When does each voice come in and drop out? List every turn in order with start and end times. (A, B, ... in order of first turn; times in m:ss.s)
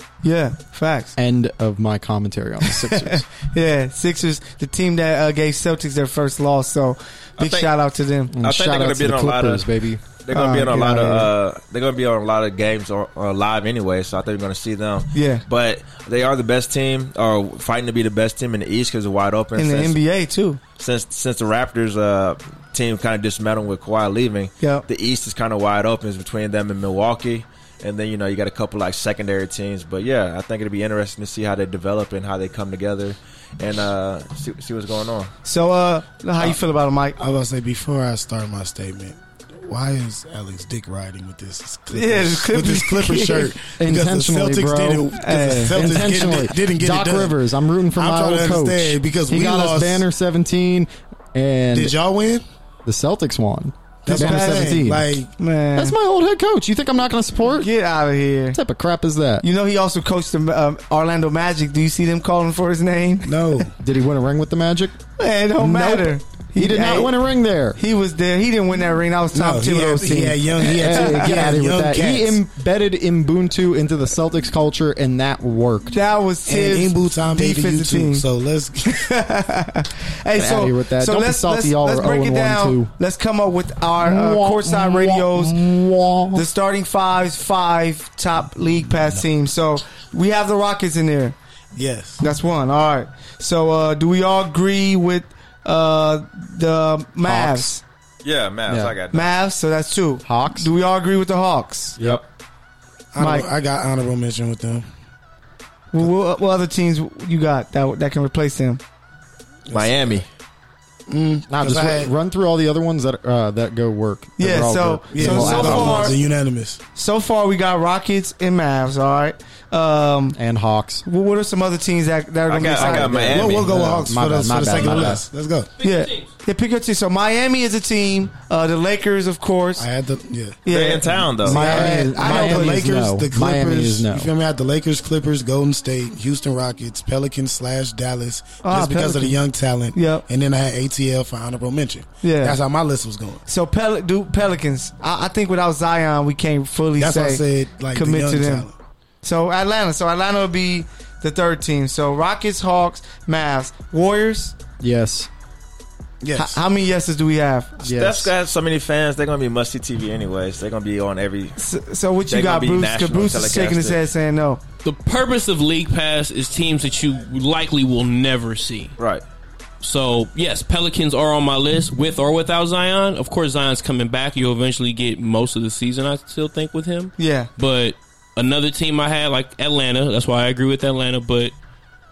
0:00.2-0:01.1 A
0:01.2-0:03.2 B
0:02.6-0:08.3 A
0:07.4-0:07.7 C
0:08.3-0:10.0 B
0:08.4-0:09.7 C
0:10.2-0:20.0 C
0:10.3-0:11.3 A
0:15.1-0:15.4 A
0:19.6-0:20.6 A
0:20.8-0:35.3 C
0:24.6-0:24.8 A
0:35.4-0:37.2 A
0:37.2-0:47.4 D
0:41.9-0:43.5 A
0:43.8-0:45.1 B
0:45.2-0:45.8 A
0:45.7-0:51.9 B
0:47.9-0:50.0 D
0:51.7-0:52.4 D
0:52.8-0:55.1 B
0:54.0-0:55.3 D
0:54.1-0:54.8 A
0:55.4-0:55.9 A
0:55.8-0:57.7 B
0:57.6-0:58.6 A
0:58.5-0:59.4 B
0:59.4-1:03.4 A
1:03.2-1:03.7 D
1:03.8-1:05.0 B
1:05.2-1:07.2 A
1:05.6-1:07.8 B
1:07.8-1:11.3 A
1:09.3-1:12.4 D
1:10.7-1:16.0 B
1:15.9-1:18.2 A
1:16.4-1:18.9 D
1:18.8-1:25.6 A
1:20.3-1:22.9 B
1:24.0-1:26.4 B
1:26.3-1:31.4 A
1:31.7-1:32.2 D
1:32.2-1:37.8 A
1:37.2-1:37.7 B
1:38.2-1:39.3 C
1:38.7-1:38.9 B
1:39.1-1:42.0 A
1:40.2-1:40.7 B
1:42.0-1:42.2 B
1:43.1-1:44.8 D
1:43.2-1:43.5 A
1:45.9-1:48.8 A
1:49.7-1:50.2 D
1:49.7-1:50.2 C
1:51.1-1:52.1 D
1:51.5-1:56.2 B
1:54.4-1:56.2 A
1:55.1-1:56.8 D
1:57.0-2:00.4 A
2:00.3-2:01.0 B
2:01.0-2:03.4 A
2:02.5-2:03.7 C
2:02.7-2:05.2 B
2:03.3-2:05.7 D
2:04.8-2:05.1 A
2:05.8-2:06.3 E
2:05.8-2:09.9 A
2:09.8-2:23.4 D
2:10.6-2:12.8 A
2:10.7-2:11.8 C
2:11.4-2:14.3 B
2:18.6-2:19.4 A
2:19.9-2:20.2 A
2:22.2-2:22.6 A
2:23.4-2:28.7 A
2:27.0-2:28.7 D
2:29.2-2:34.6 A
2:34.8-2:35.3 B
2:36.2-2:36.6 D
2:36.3-2:37.8 A
2:37.8-2:38.3 B
2:37.8-2:41.6 C
2:41.6-2:44.6 A
2:42.3-2:44.0 C
2:44.8-2:49.0 E
2:49.0-2:49.2 C
2:49.8-3:01.5 E
2:57.2-2:57.5 A